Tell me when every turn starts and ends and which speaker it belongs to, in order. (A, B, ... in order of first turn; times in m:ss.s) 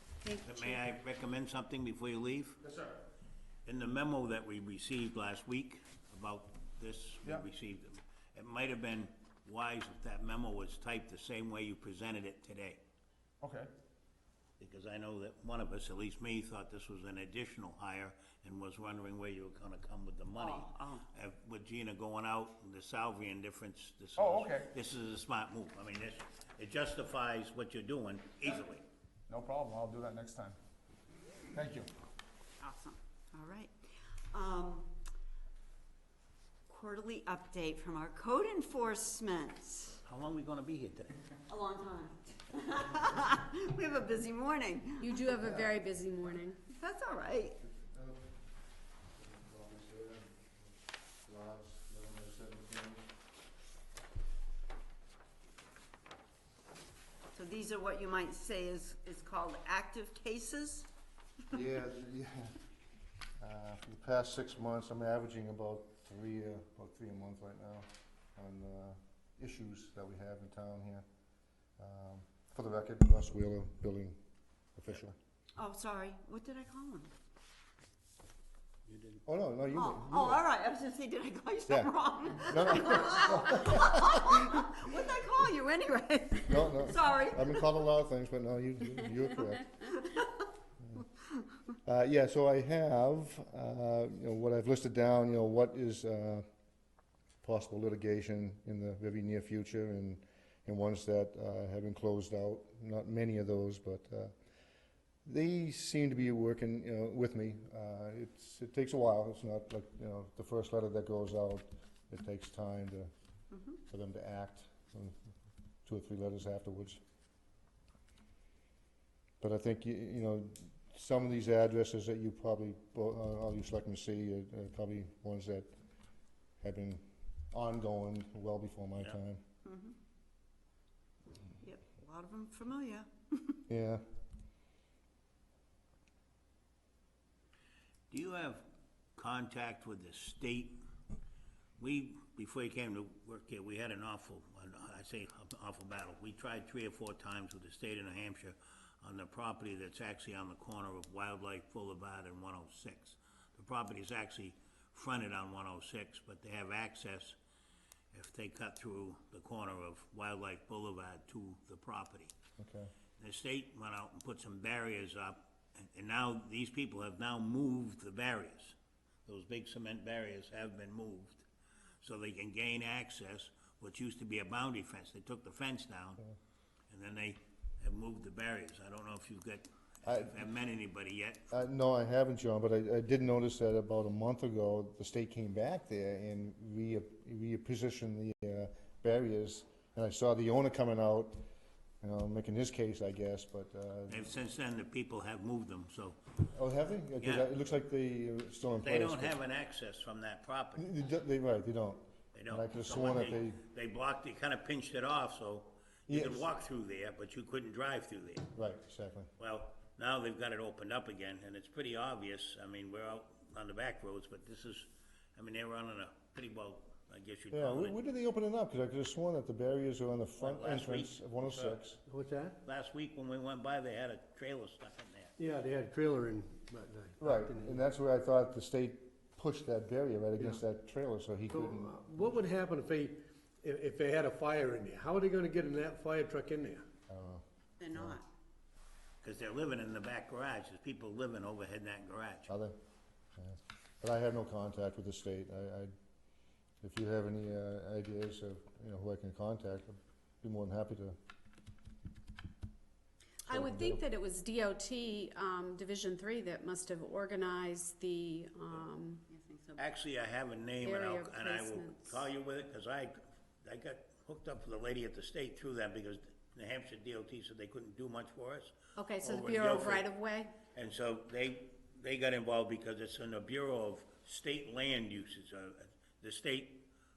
0:00.2-0:00.8 A
0:00.4-0:02.6 B
0:02.6-0:03.0 C
0:03.6-0:12.8 B
0:13.4-0:13.7 C
0:14.6-0:28.8 B
0:20.3-0:21.0 A
0:24.2-0:24.7 C
0:29.3-0:30.6 C
0:31.5-0:31.9 C
0:32.6-0:33.7 A
0:34.3-0:34.9 A
0:36.7-0:40.0 A
0:40.0-0:41.1 B
0:41.5-0:45.3 A
0:45.0-0:46.6 D
0:45.4-0:45.8 E
0:46.7-0:47.6 A
0:47.6-0:48.3 E
0:49.1-0:50.7 E
0:51.2-0:53.1 E
0:57.3-1:00.9 A
1:01.5-1:02.5 E
1:03.4-1:11.0 E
1:11.8-1:14.2 E
1:14.8-1:15.2 E
1:15.6-1:17.1 A
1:18.9-1:19.2 B
1:19.2-1:20.4 E
1:19.7-1:27.8 A
1:21.7-1:24.4 E
1:26.5-1:29.9 E
1:31.8-1:36.4 E
1:37.4-1:44.3 E
1:45.2-1:53.1 E
1:53.5-1:53.8 A
1:53.9-1:55.2 E
1:55.8-1:57.0 E
1:59.4-2:05.7 E
2:06.6-2:09.4 E
2:09.6-2:09.9 A
2:11.6-2:13.6 A
2:13.7-2:14.0 E
2:18.1-2:18.6 B
2:19.2-2:20.8 B
2:21.8-2:37.4 B
2:38.1-2:42.3 B
2:42.6-2:42.9 E
2:43.2-2:51.4 B
2:52.0-2:56.2 B
2:56.9-3:01.5 B
3:00.0-3:00.4 E
3:01.5-3:11.4 E
3:12.0-3:14.3 E
3:14.1-3:16.2 B
3:16.5-3:19.4 E
3:17.2-3:17.5 B
3:18.8-3:20.9 B
3:20.8-3:23.6 E
3:22.3-3:28.5 B
3:26.1-3:26.5 E
3:28.5-3:29.3 E
3:29.4-3:38.0 B
3:37.5-3:42.0 E
3:40.4-3:41.8 B
3:42.1-3:42.6 F
3:42.6-3:45.3 B
3:45.4-3:47.8 F
3:47.2-3:52.0 E
3:51.5-3:56.8 F
3:57.1-3:57.4 E
3:57.8-3:58.2 A
3:57.9-3:58.2 E
3:59.2-4:02.5 B
4:02.5-4:02.8 E
4:03.4-4:05.9 E
4:06.8-4:11.2 E
4:13.4-4:19.2 D
4:13.5-4:14.0 E
4:19.3-4:19.8 A
4:19.8-4:30.2 B
4:20.8-4:22.3 D
4:28.9-4:30.6 D
4:30.7-4:36.8 B